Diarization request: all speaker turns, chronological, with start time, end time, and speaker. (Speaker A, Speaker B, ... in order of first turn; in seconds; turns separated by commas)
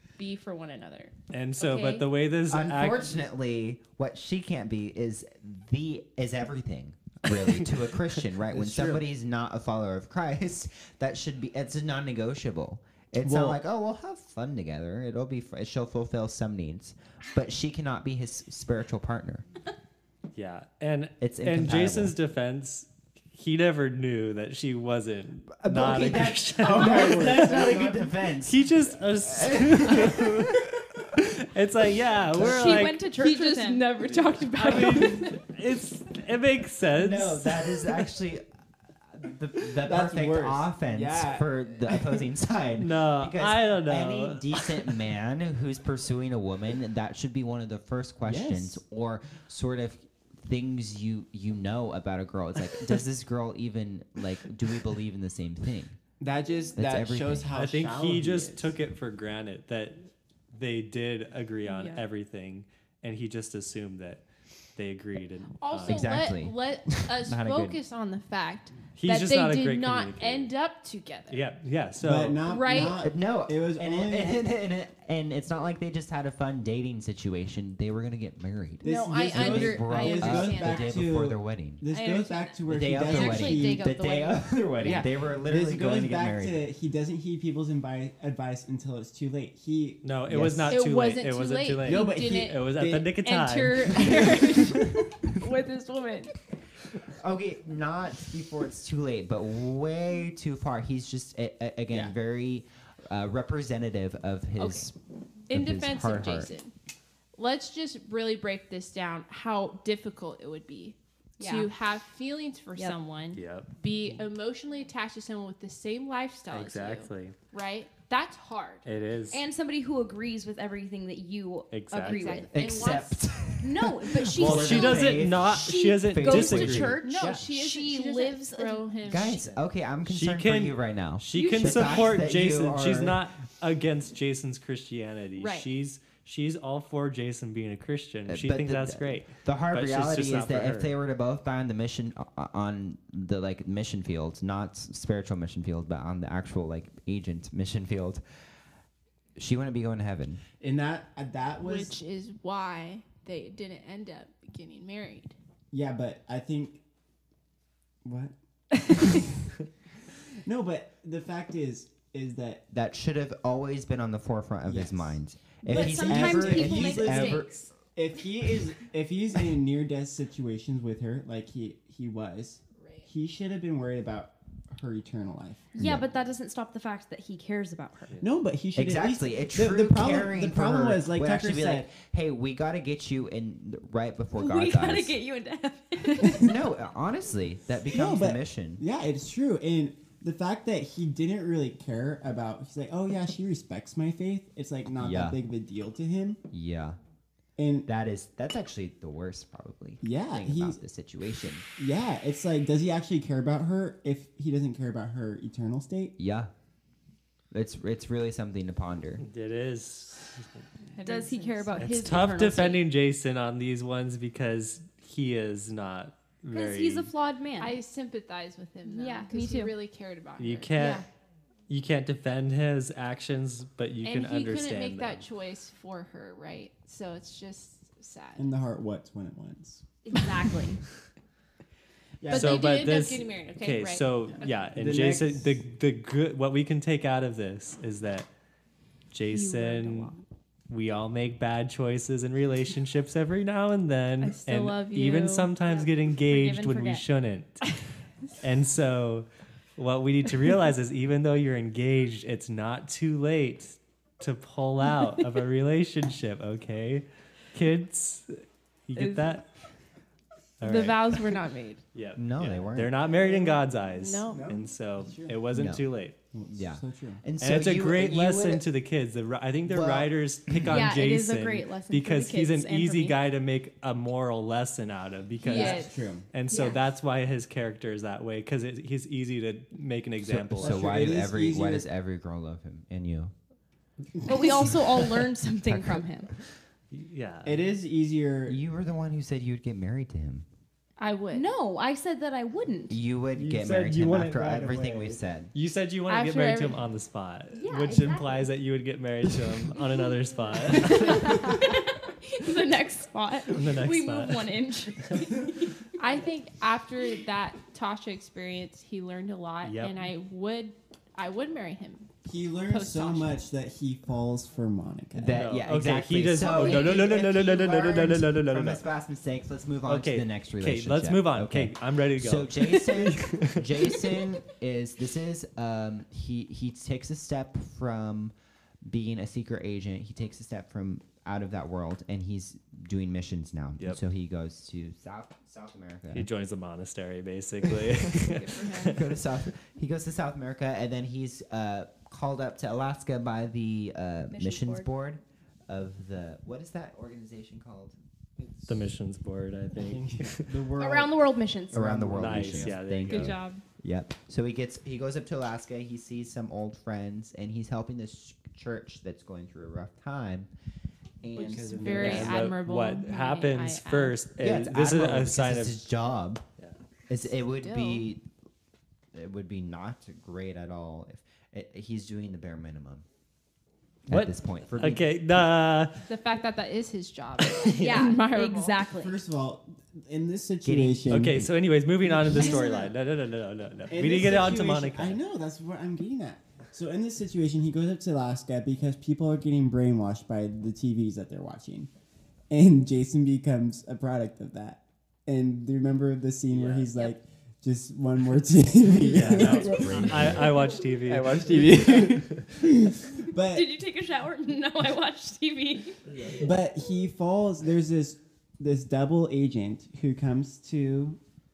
Speaker A: 0.2-2.1, Speaker B: 1.3-3.1, Speaker C: 2.5-19.4, Speaker D: 8.5-9.0, Speaker D: 13.2-13.6, Speaker B: 20.3-30.6, Speaker C: 21.2-22.1, Speaker C: 25.6-30.4, Speaker D: 26.6-28.1, Speaker B: 31.4-33.0, Speaker D: 32.3-32.8, Speaker E: 32.4-33.9, Speaker A: 33.1-35.4, Speaker B: 34.5-38.0, Speaker C: 36.9-38.4, Speaker C: 39.1-56.0, Speaker D: 39.8-42.2, Speaker B: 42.8-44.7, Speaker D: 48.2-48.8, Speaker D: 56.2-58.7, Speaker C: 56.7-57.5, Speaker B: 57.5-66.2, Speaker A: 61.6-62.0, Speaker A: 65.6-71.5, Speaker C: 65.9-67.8, Speaker B: 69.0-70.5, Speaker B: 71.3-72.4, Speaker D: 72.0-74.4, Speaker A: 72.5-73.0, Speaker C: 72.7-81.8, Speaker D: 78.8-83.9, Speaker A: 78.8-81.0, Speaker A: 81.9-85.1, Speaker C: 82.7-86.6, Speaker D: 84.8-90.8, Speaker B: 90.0-94.4, Speaker A: 90.7-92.7, Speaker D: 91.8-93.1, Speaker A: 93.2-96.3, Speaker D: 94.0-94.8, Speaker C: 97.1-104.9, Speaker A: 105.5-106.7, Speaker C: 105.5-106.5, Speaker A: 107.3-118.8, Speaker E: 111.4-111.7, Speaker B: 113.3-113.7, Speaker B: 116.5-117.3, Speaker B: 118.8-119.4, Speaker E: 119.3-129.3, Speaker B: 121.7-122.4, Speaker A: 122.0-123.1, Speaker C: 122.5-127.0, Speaker B: 124.3-127.4, Speaker A: 127.0-129.4, Speaker C: 129.0-133.2, Speaker B: 130.1-140.9, Speaker A: 131.3-132.1, Speaker A: 135.4-135.7, Speaker C: 138.3-148.2, Speaker C: 149.4-150.4, Speaker D: 150.6-151.9, Speaker A: 151.6-155.3, Speaker D: 155.7-156.8, Speaker D: 158.0-158.3, Speaker A: 158.8-159.2, Speaker D: 158.9-159.2, Speaker D: 160.4-162.6, Speaker C: 162.7-167.6, Speaker D: 164.7-176.0, Speaker E: 165.7-167.7, Speaker A: 172.8-173.1, Speaker E: 175.8-178.2, Speaker C: 175.8-176.1, Speaker D: 178.2-181.8, Speaker C: 178.7-185.1, Speaker E: 184.3-186.5, Speaker C: 186.3-188.8, Speaker D: 187.9-196.4, Speaker C: 195.0-195.4, Speaker C: 196.5-197.0, Speaker D: 197.6-197.9, Speaker C: 197.8-201.6, Speaker D: 200.0-200.8, Speaker D: 201.8-206.1, Speaker C: 206.2-206.5, Speaker C: 207.5-209.2, Speaker B: 209.2-210.7, Speaker A: 210.9-212.2, Speaker E: 211.0-212.8, Speaker B: 211.8-217.1, Speaker E: 216.5-217.8, Speaker A: 217.6-221.0, Speaker E: 218.8-219.7, Speaker B: 220.4-221.0, Speaker B: 221.7-225.2, Speaker A: 224.0-228.5, Speaker D: 228.4-229.8, Speaker E: 230.0-230.8, Speaker D: 232.2-232.8, Speaker A: 232.3-234.6, Speaker B: 232.3-238.3, Speaker D: 234.3-235.5, Speaker B: 239.1-240.1, Speaker E: 239.3-240.2, Speaker B: 240.7-247.8, Speaker A: 244.2-245.5, Speaker E: 245.6-247.0, Speaker B: 248.4-259.6, Speaker A: 258.9-259.4, Speaker B: 260.6-261.3, Speaker A: 260.6-261.8, Speaker B: 261.9-266.2, Speaker C: 262.1-262.9, Speaker A: 263.9-264.5, Speaker D: 264.3-265.4, Speaker C: 265.5-265.9, Speaker D: 266.3-267.2, Speaker C: 266.5-268.6, Speaker B: 267.4-281.0, Speaker C: 269.7-270.7, Speaker E: 270.7-273.2, Speaker A: 275.4-275.9, Speaker D: 275.5-276.3, Speaker A: 276.5-276.7, Speaker E: 276.5-276.8, Speaker C: 280.2-283.3, Speaker D: 280.6-281.9, Speaker E: 284.2-286.3, Speaker B: 286.9-287.6, Speaker D: 287.4-288.6, Speaker C: 288.5-290.4, Speaker A: 291.0-291.5, Speaker E: 291.3-293.0, Speaker C: 292.9-295.5, Speaker B: 293.4-294.7, Speaker D: 294.4-295.2, Speaker B: 295.5-301.6, Speaker A: 296.1-296.8, Speaker E: 297.5-298.5, Speaker E: 300.6-306.0, Speaker B: 303.5-305.2, Speaker A: 306.0-312.1, Speaker B: 309.6-310.0, Speaker D: 312.2-315.4, Speaker A: 312.7-313.4, Speaker C: 315.1-336.3, Speaker B: 315.3-318.8, Speaker A: 316.4-316.9, Speaker B: 319.9-323.6, Speaker D: 323.1-323.5, Speaker B: 336.1-339.0, Speaker C: 337.9-338.2, Speaker A: 338.2-339.0, Speaker C: 338.8-347.9, Speaker E: 344.3-344.9, Speaker D: 348.4-348.7, Speaker B: 348.6-350.5, Speaker D: 349.8-352.8, Speaker E: 350.7-351.9, Speaker C: 351.7-360.5, Speaker B: 352.1-353.4, Speaker A: 353.0-353.6, Speaker C: 361.2-362.4, Speaker D: 361.3-362.4, Speaker A: 361.4-364.2, Speaker B: 361.9-365.8, Speaker C: 364.4-366.4, Speaker C: 367.1-368.2, Speaker A: 367.3-368.1, Speaker C: 369.1-373.0, Speaker C: 374.1-375.0, Speaker B: 374.1-376.1, Speaker A: 376.1-378.8, Speaker B: 377.6-378.0, Speaker E: 377.8-379.2, Speaker D: 379.0-381.5, Speaker C: 380.6-381.4, Speaker B: 381.1-385.2, Speaker D: 382.0-382.9, Speaker A: 382.3-382.9, Speaker D: 383.9-391.9, Speaker D: 392.5-403.7, Speaker B: 396.5-396.9, Speaker B: 399.0-402.2, Speaker C: 399.1-400.6, Speaker E: 403.4-406.0, Speaker D: 406.2-411.2